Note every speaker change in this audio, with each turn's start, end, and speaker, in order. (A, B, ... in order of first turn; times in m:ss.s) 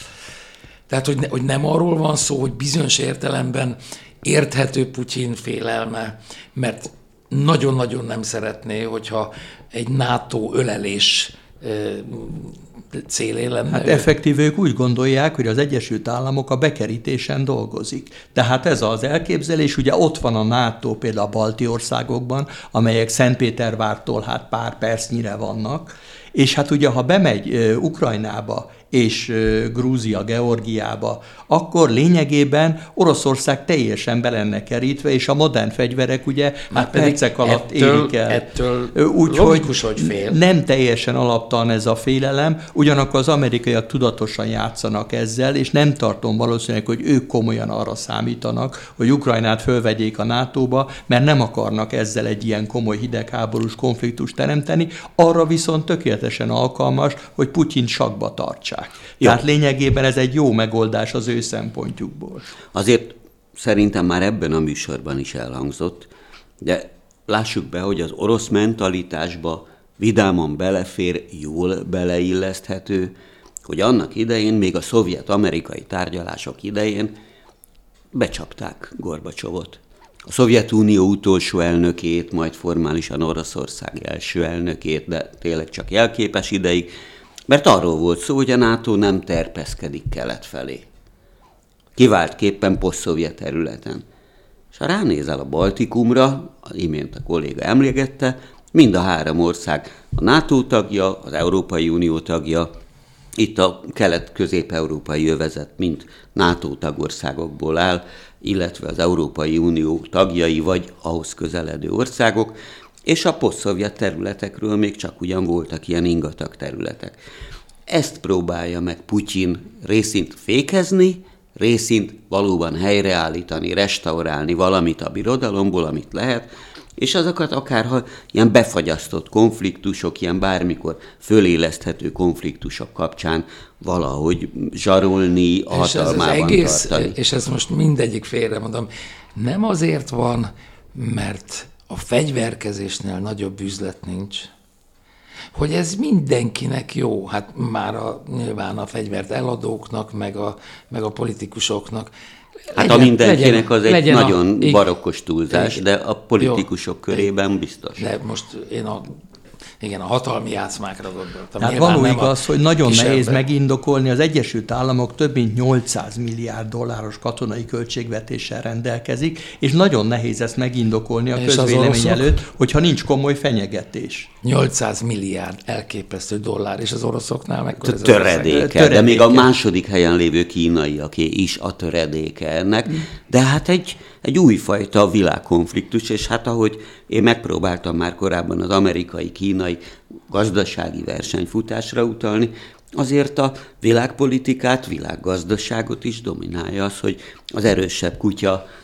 0:00.9-0:14.1 A
0:13.7-1:02.5 B
0:36.7-0:40.4 A
1:02.7-1:06.1 C
1:06.6-1:17.1 C
1:18.1-1:26.9 C
1:27.5-1:30.8 C
1:32.0-1:34.0 C
1:34.7-1:42.7 C
1:43.4-1:52.5 C
1:53.1-1:57.2 C
1:57.9-2:17.2 C
2:15.7-2:24.5 A
2:25.5-2:32.1 A
2:32.6-2:34.8 A
2:32.8-2:38.1 C
2:35.5-2:35.8 A
2:36.4-2:37.3 A
2:38.0-2:39.2 A
2:39.8-2:43.4 A
2:41.6-2:54.3 B
2:51.4-2:52.4 A
2:54.4-2:58.6 A
2:57.8-3:18.6 C
2:58.5-2:59.5 B